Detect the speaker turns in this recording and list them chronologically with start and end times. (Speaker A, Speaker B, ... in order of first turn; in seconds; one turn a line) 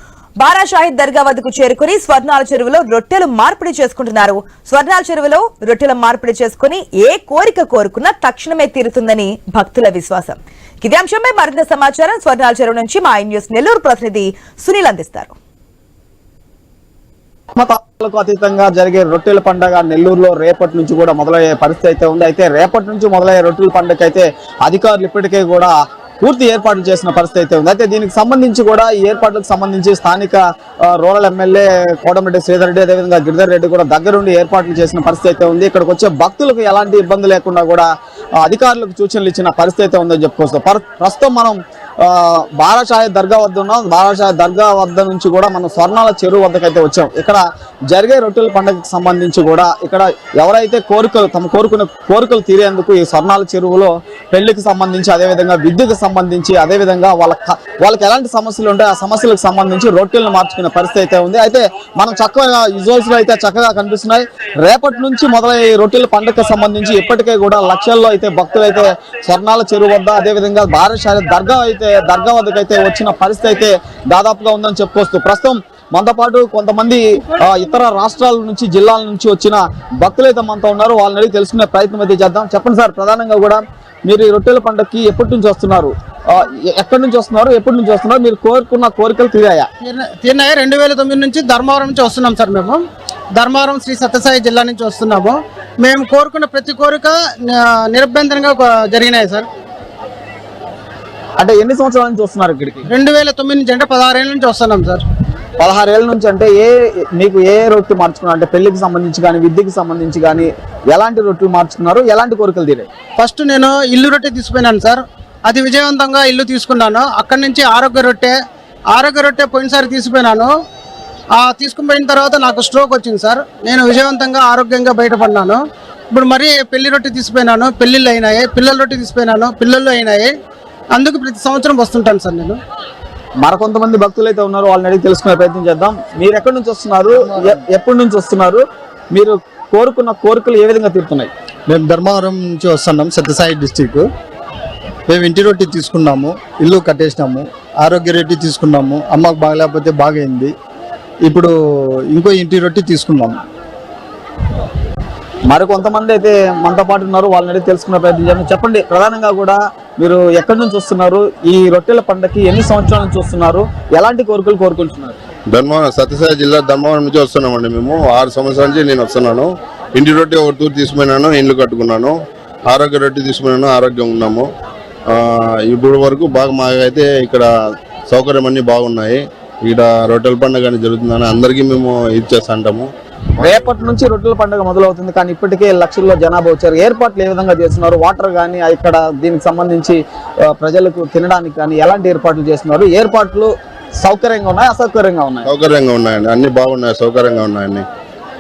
Speaker A: 0.4-15.3
Speaker B: 17.5-37.9
Speaker B: 38.4-89.7
Speaker C: 89.8-92.8
Speaker C: 93.3-99.5
Speaker B: 101.4-102.8
Speaker C: 102.9-105.0
Speaker B: 105.6-112.9
Speaker C: 113.2-118.4
Speaker C: 118.9-120.5
Speaker C: 121.3-125.6
Speaker C: 126.1-130.3
Speaker C: 130.9-132.6
Speaker B: 133.4-141.3
Speaker D: 141.7-144.1
Speaker D: 145.1-150.5
Speaker D: 151.3-151.5
Speaker D: 152.1-153.4
Speaker B: 155.5-165.2
Speaker E: 165.5-172.2
Speaker E: 172.7-174.4
Speaker E: 175.1-177.5
Speaker E: 178.1-182.9
Speaker E: 183.4-183.7
Speaker B: 183.4-195.5
Speaker E: 195.5-197.8